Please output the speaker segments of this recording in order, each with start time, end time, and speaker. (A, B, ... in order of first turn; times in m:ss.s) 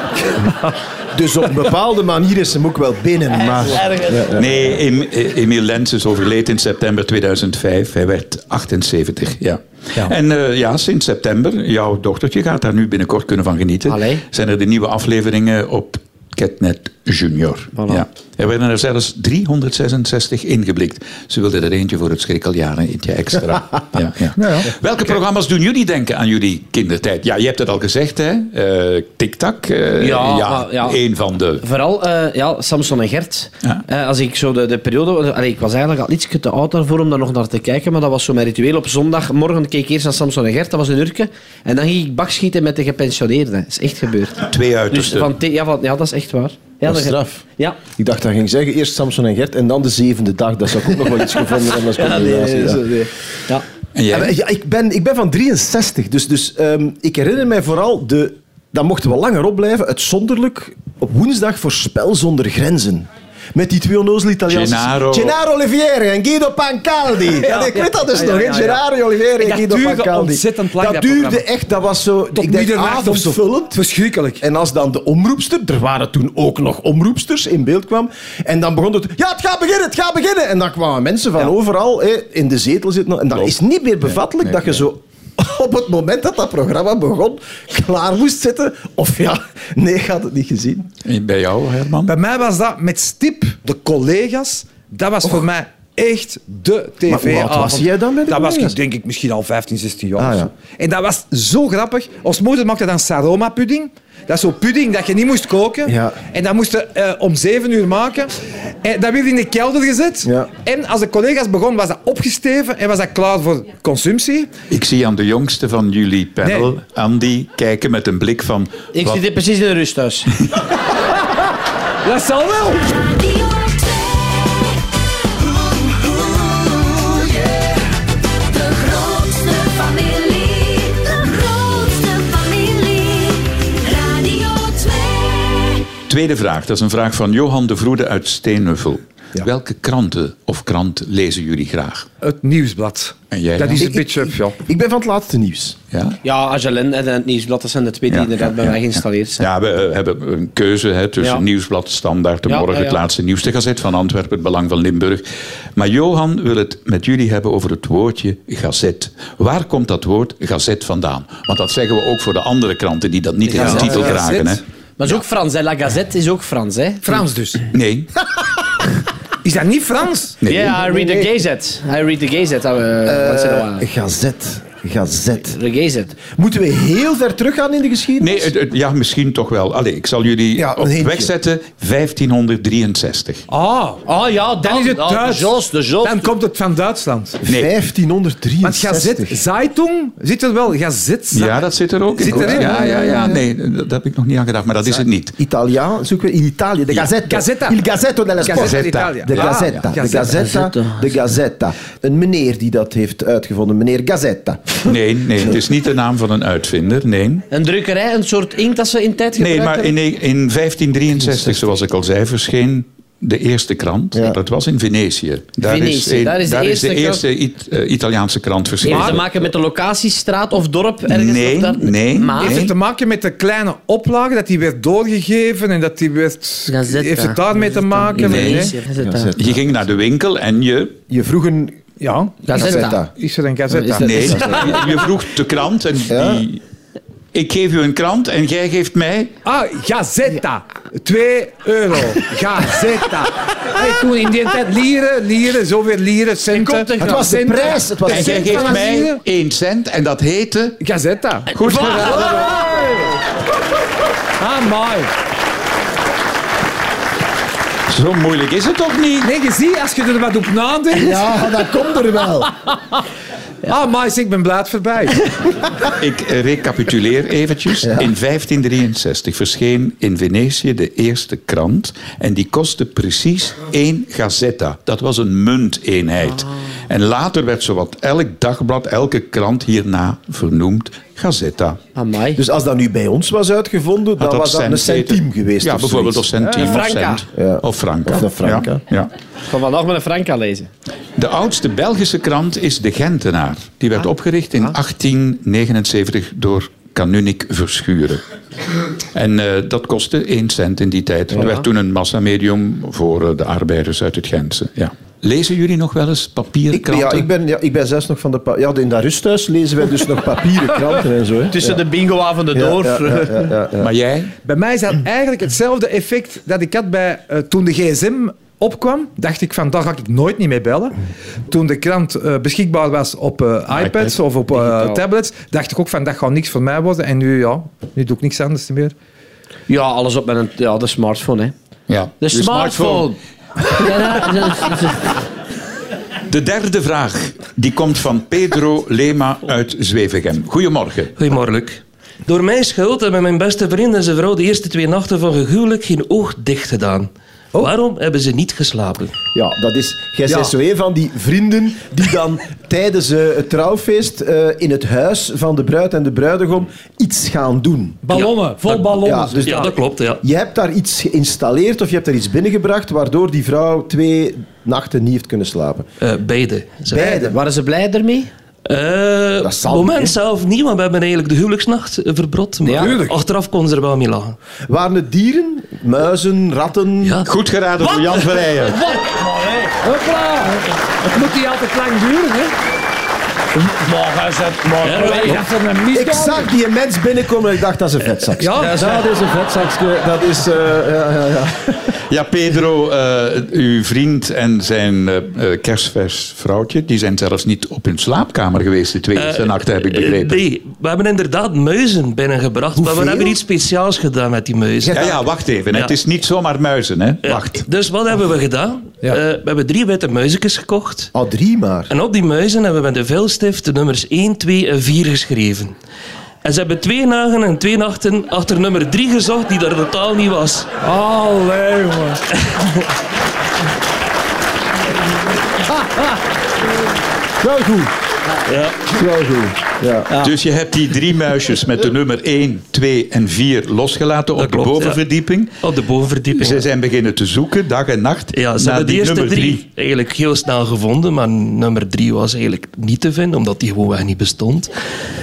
0:01.1-0:04.4 A
0:03.3-0:04.4 B
0:04.4-0:31.6 C
0:13.9-0:14.2 B
0:17.8-0:18.0 B
0:24.4-0:24.7 D
0:30.0-0:31.0 B
0:31.6-0:47.8 B
0:44.5-0:45.3 C
0:46.8-0:47.4 A
0:48.0-0:53.1 A
0:51.8-0:53.6 B
0:54.0-0:54.3 C
0:54.1-1:13.8 A
1:04.5-1:05.3 C
1:07.4-1:08.8 D
1:09.4-1:11.4 D
1:12.3-1:14.4 D
1:14.4-1:30.9 A
1:24.4-1:24.8 C
1:31.0-1:32.1 C
1:32.0-1:48.3 D
1:37.1-1:38.8 A
1:40.2-1:40.5 A
1:45.8-1:46.2 A
1:48.8-1:54.5 D
1:50.2-1:50.5 A
1:54.7-1:59.2 C
1:56.4-1:56.7 D
1:58.9-2:00.3 B
2:02.0-2:03.0 D
2:03.2-2:04.2 E
2:06.0-2:07.2 E
2:08.6-2:15.8 E
2:16.1-2:22.1 C
2:22.2-2:24.6 D
2:23.3-2:23.8 C
2:23.7-2:25.8 A
2:25.9-2:26.2 C
2:26.2-2:29.4 B
2:28.1-2:35.2 C
2:32.5-2:33.0 B
2:35.8-2:44.6 C
2:43.5-2:44.2 B
2:43.6-2:44.6 D
2:45.0-2:47.2 B
2:47.0-2:47.6 D
2:47.7-2:48.1 C
2:49.4-2:50.4 D
2:50.4-2:50.8 C
2:50.5-2:53.8 B
2:50.7-2:51.3 A
2:53.0-2:55.6 A
2:55.5-2:56.2 B
2:56.3-2:58.5 A
2:58.2-3:03.4 C
3:00.5-3:01.3 A
3:03.5-3:04.0 D
3:04.0-3:06.3 B
3:04.6-3:07.4 D
3:07.4-3:09.4 A
3:07.4-3:07.7 C
3:08.6-3:11.6 D
3:11.3-3:15.3 C
3:12.1-3:13.4 D
3:12.2-3:13.4 A
3:15.4-3:24.9 A
3:17.2-3:17.8 D
3:18.4-3:20.4 D
3:18.5-3:19.9 C
3:20.1-3:21.0 B
3:24.8-3:27.4 C
3:27.5-3:29.9 B
3:29.4-3:39.5 C
3:31.2-3:31.6 A
3:35.6-3:37.2 B
3:38.8-3:42.7 B
3:38.9-3:39.2 D
3:41.1-3:42.7 C
3:42.4-3:48.7 D
3:46.7-3:49.3 B
3:48.2-3:48.7 C
3:49.0-3:49.6 A
3:49.4-3:51.0 C
3:51.1-3:51.8 A
3:52.0-3:54.3 D
3:52.4-3:53.0 B
3:52.5-3:53.1 A
3:53.7-3:54.8 B
3:54.0-3:56.6 C
3:54.2-3:54.6 A
3:56.1-3:56.4 A
3:57.3-3:59.3 C
3:59.4-4:09.2 D
4:06.5-4:07.2 B
4:07.0-4:08.9 A
4:08.1-4:10.8 C
4:10.8-4:13.1 D
4:11.5-4:12.6 C
4:14.4-4:15.1 D
4:17.9-4:19.3 C
4:19.2-4:21.4 D
4:20.9-4:22.5 A
4:23.6-4:25.2 D
4:25.9-4:41.8 C
4:27.8-4:28.1 A
4:42.0-4:42.4 B
4:42.3-4:46.3 A
4:44.2-4:49.1 C
4:46.5-4:47.2 B
4:47.3-4:48.8 A
4:49.5-4:50.7 B
4:51.2-4:58.2 C
4:59.1-5:07.3 C
5:06.7-5:11.8 A
5:11.5-5:13.5 B
5:12.5-5:13.9 A
5:13.8-5:14.3 C
5:14.4-5:20.9 D
5:21.5-5:28.9 D
5:23.7-5:24.1 C
5:24.5-5:25.0 B
5:29.7-5:31.5 B
5:31.9-5:33.1 C
5:32.2-5:35.2 B
5:36.3-5:41.2 C
5:41.2-5:49.2 F
5:49.3-5:58.0 A
5:58.0-5:59.7 D
5:58.1-6:00.2 F
5:59.0-6:05.9 A
6:06.0-6:07.2 F
6:06.9-6:07.4 A
6:07.0-6:08.3 B
6:08.6-6:14.4 F
6:09.4-6:10.2 A
6:12.6-6:13.0 B
6:12.7-6:13.2 D
6:14.7-6:17.2 A
6:17.0-6:17.3 F
6:17.2-6:18.8 C
6:17.9-6:18.4 F
6:19.2-6:19.6 B
6:19.8-6:22.5 D
6:23.8-6:25.4 B
6:24.8-6:25.4 F
6:24.8-6:26.5 D
6:25.9-6:31.9 A
6:28.4-6:29.0 D
6:28.8-6:29.0 B
6:32.1-6:40.4 C
6:39.1-6:45.2 F
6:42.8-6:43.4 A
6:44.9-6:47.6 C
6:47.2-6:51.1 F
6:51.1-6:51.9 A
6:51.9-6:55.7 F
6:56.4-7:00.7 F
7:00.8-7:02.2 D
7:07.4-7:07.8 D
7:08.5-7:08.8 F
7:08.9-7:10.1 A
7:10.2-7:15.5 C
7:14.4-7:15.0 F
7:15.6-7:16.7 F
7:16.3-7:19.6 C
7:18.3-7:24.7 F